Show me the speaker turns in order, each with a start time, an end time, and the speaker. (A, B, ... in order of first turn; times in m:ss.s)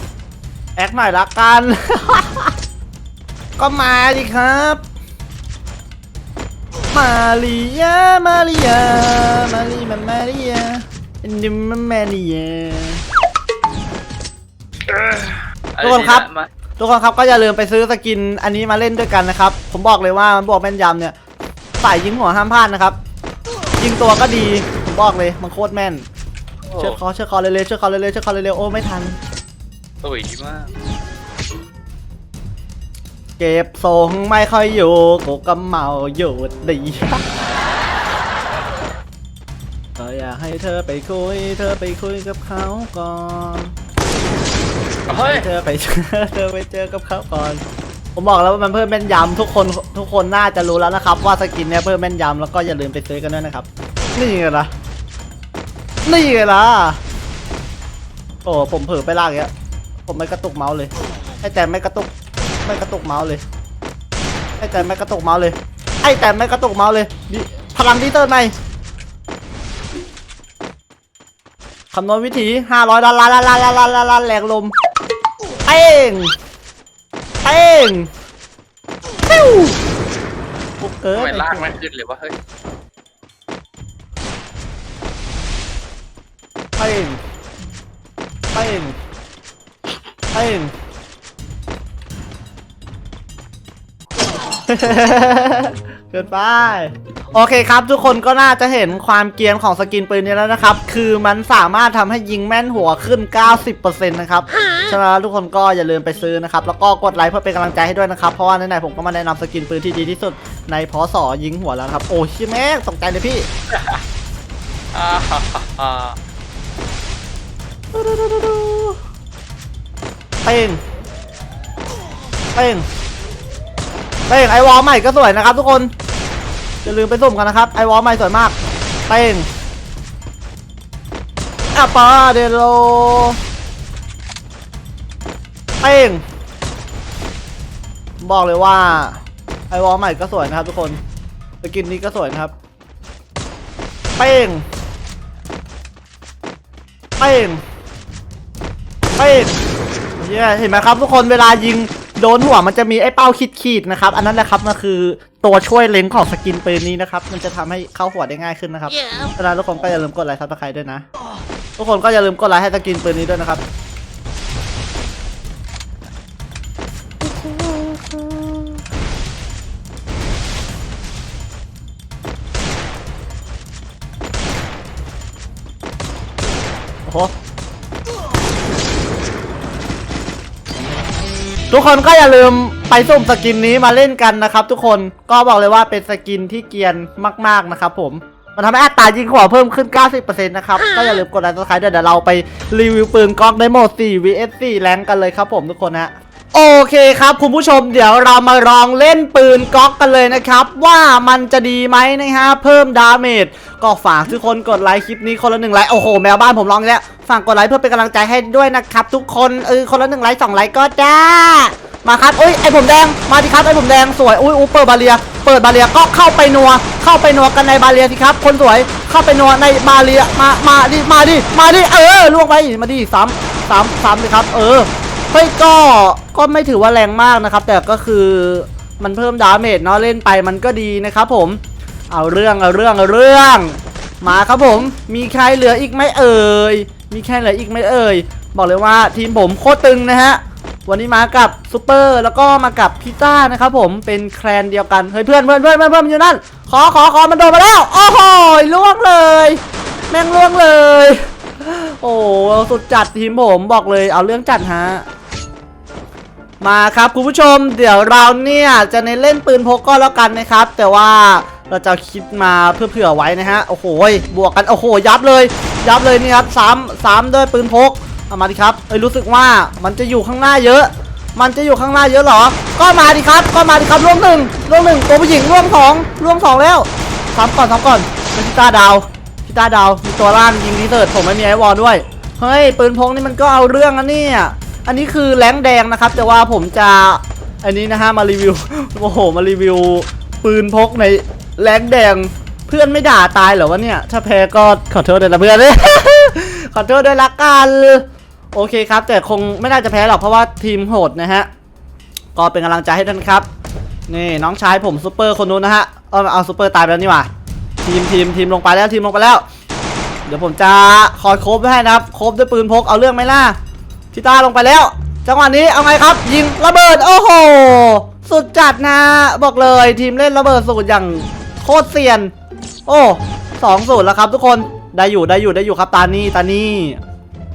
0:00.8-0:02.5 A
0:03.6-0:04.8 A
0:06.9-0:13.0 A
0:14.9-0:16.5 B
0:15.8-0:16.3 A
0:16.8-0:21.2 A
0:21.8-0:23.0 A
0:23.8-0:26.1 A
0:26.7-0:27.0 B
0:26.8-0:29.2 A
0:30.0-0:30.7 B
0:33.4-0:37.2 A
0:40.0-0:43.7 A
0:45.1-0:45.5 B
0:45.1-0:47.6 A
0:48.2-0:54.7 A
0:56.1-0:57.0 A
0:58.4-0:59.5 A
1:00.1-1:02.1 A
1:02.6-1:03.4 A
1:04.6-1:08.5 A
1:11.9-1:14.7 A
1:15.7-1:16.3 A
1:17.4-1:18.1 A
1:19.3-1:19.8 A
1:20.8-1:21.7 A
1:21.1-1:22.4 B
1:26.8-1:27.2 A
1:28.5-1:29.0 A
1:30.3-1:30.7 A
1:34.7-1:53.5 A
1:53.7-1:54.0 B
1:54.9-1:56.2 B
1:57.9-1:59.0 A
2:00.4-2:00.8 A
2:02.6-2:02.9 A
2:04.3-2:05.9 A
2:06.8-2:08.6 A
2:09.1-2:09.5 A
2:11.7-2:13.4 A
2:15.8-2:16.2 A
2:18.2-2:21.0 A
2:21.6-2:22.5 A
2:24.2-2:24.7 A
2:27.2-2:27.6 A
2:29.2-2:29.6 A
2:30.2-2:41.0 A
2:41.8-2:43.6 A
2:47.2-2:48.8 A
2:57.1-2:57.3 A
3:01.7-4:15.1 A
4:16.6-5:01.5 A
5:02.4-5:03.5 A
5:04.1-5:07.3 A
5:07.8-5:09.4 A
5:10.3-5:13.6 A
5:14.1-5:22.3 A
5:22.9-5:27.0 A